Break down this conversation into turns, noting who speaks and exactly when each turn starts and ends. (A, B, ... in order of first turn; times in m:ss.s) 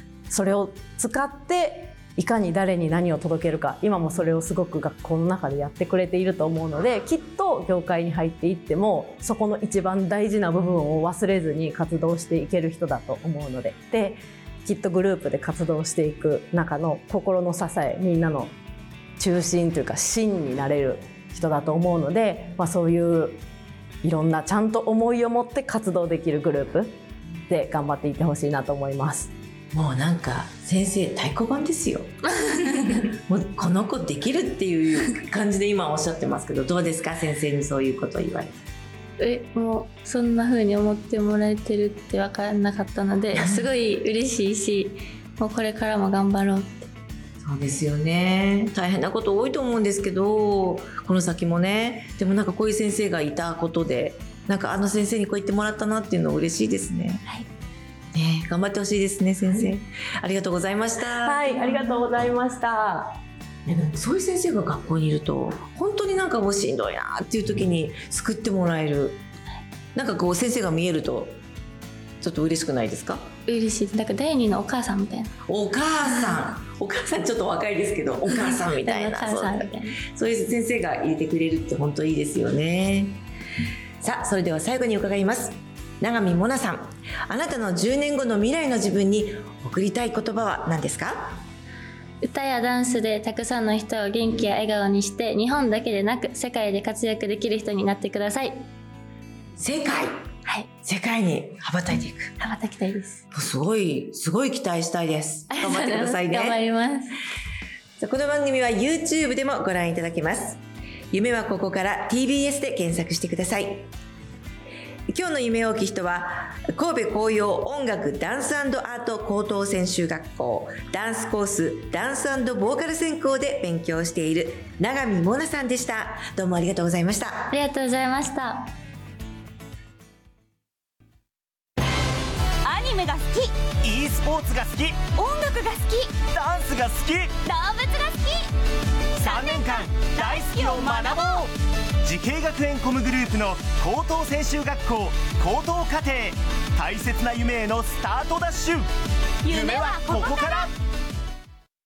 0:00.3-0:18.5 A
0:19.2-0:23.4 A
0:24.0-0:27.0 A
0:27.5-0:29.3 A
0:29.7-0:32.1 B
0:32.3-0:33.1 C
0:33.3-0:38.6 B
0:39.2-0:46.9 C
0:43.3-0:43.7 B
0:47.4-0:57.2 B
0:58.1-1:01.9 B
1:01.2-1:03.2 A
1:03.6-1:09.2 B
1:09.9-1:11.4 B
1:12.2-1:13.3 B
1:13.5-1:15.3 C
1:15.5-1:23.2 B
1:18.8-1:20.0 C
1:24.0-1:31.4 B
1:32.2-1:38.6 C
1:39.6-1:40.3 B
1:40.8-1:42.3 B
1:42.4-1:43.2 C
1:43.3-1:46.6 B
1:45.5-1:47.2 C
1:48.0-1:50.6 B
1:51.1-1:53.9 B
1:55.1-2:07.5 B
2:07.5-2:08.7 C
2:12.6-2:13.5 D
2:13.8-2:15.0 E
2:15.1-2:16.1 D
2:16.3-2:17.3 E
2:17.4-2:18.5 D
2:19.2-2:21.5 D
2:19.2-2:21.5 E
2:22.0-2:28.8 E
2:29.4-2:30.7 D
2:29.4-2:30.7 E